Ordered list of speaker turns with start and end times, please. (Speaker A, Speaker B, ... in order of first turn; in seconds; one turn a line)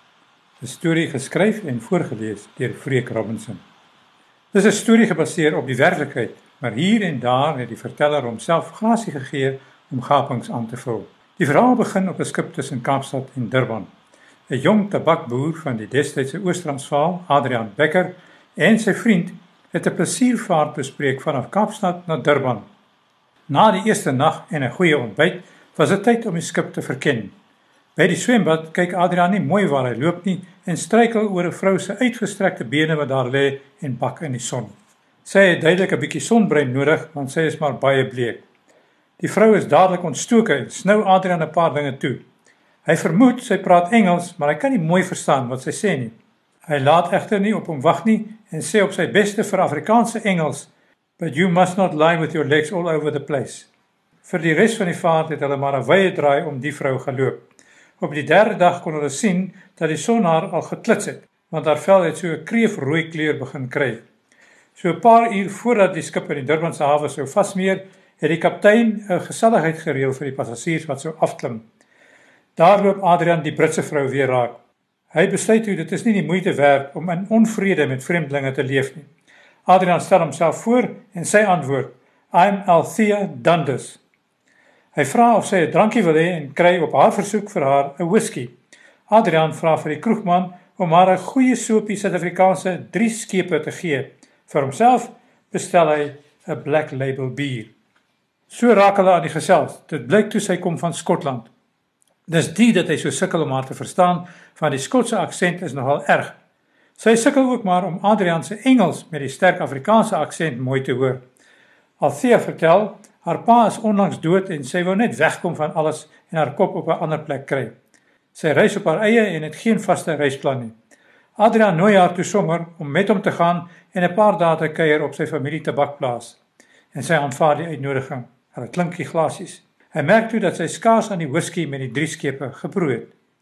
Speaker A: 0.6-3.6
Speaker A: 4.5-13.9
Speaker A: 14.5-22.7
Speaker A: 23.5-27.4
Speaker A: 28.0-34.7
Speaker A: 35.2-38.5
Speaker A: 39.2-42.2
Speaker A: 42.9-46.1
Speaker A: 46.7-53.7
Speaker A: 54.2-57.4
Speaker A: 58.0-64.0
Speaker A: 64.8-71.7
Speaker A: 72.6-74.6
Speaker A: 75.1-79.1
Speaker A: 79.7-84.0
Speaker A: 85.0-88.5
Speaker A: 89.1-97.7
Speaker A: 98.5-101.5
Speaker A: 102.3-106.4
Speaker A: 107.0-111.2
Speaker A: 112.0-117.8
Speaker A: 118.3-120.7
Speaker A: 121.4-126.4
Speaker A: 126.9-133.1